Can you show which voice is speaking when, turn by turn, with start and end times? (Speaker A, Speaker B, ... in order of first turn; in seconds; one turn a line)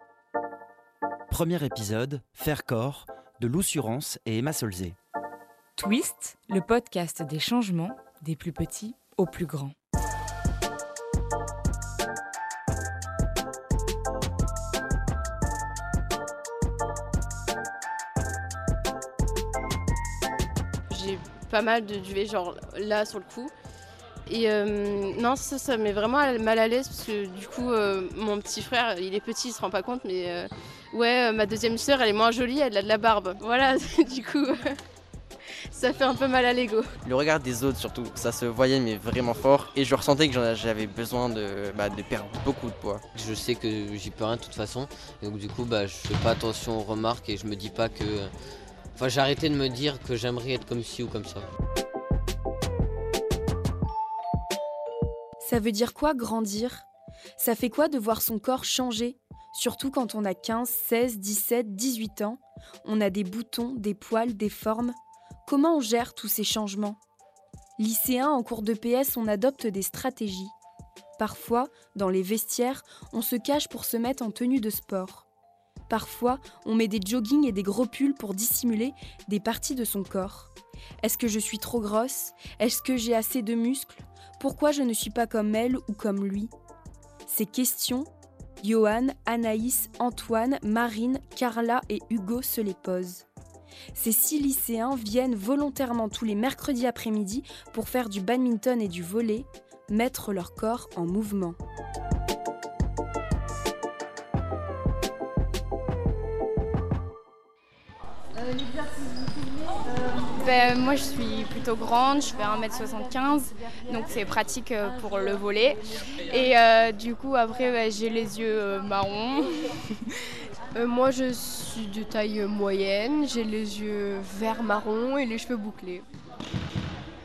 Speaker A: 1.3-5.0
Speaker B: 5.8-9.7
Speaker C: 20.9-23.5
Speaker C: 24.3-34.8
Speaker C: 35.7-36.9
Speaker D: 37.0-43.0
Speaker E: 43.1-48.3
Speaker E: 49.0-51.5
Speaker F: 55.4-56.8
Speaker F: 57.4-67.0
Speaker F: 67.8-70.5
Speaker F: 71.2-75.2
Speaker F: 75.9-86.5
Speaker F: 87.3-88.1
Speaker F: 88.6-93.2
Speaker F: 93.9-101.6
Speaker G: 110.3-120.2
Speaker H: 120.7-126.0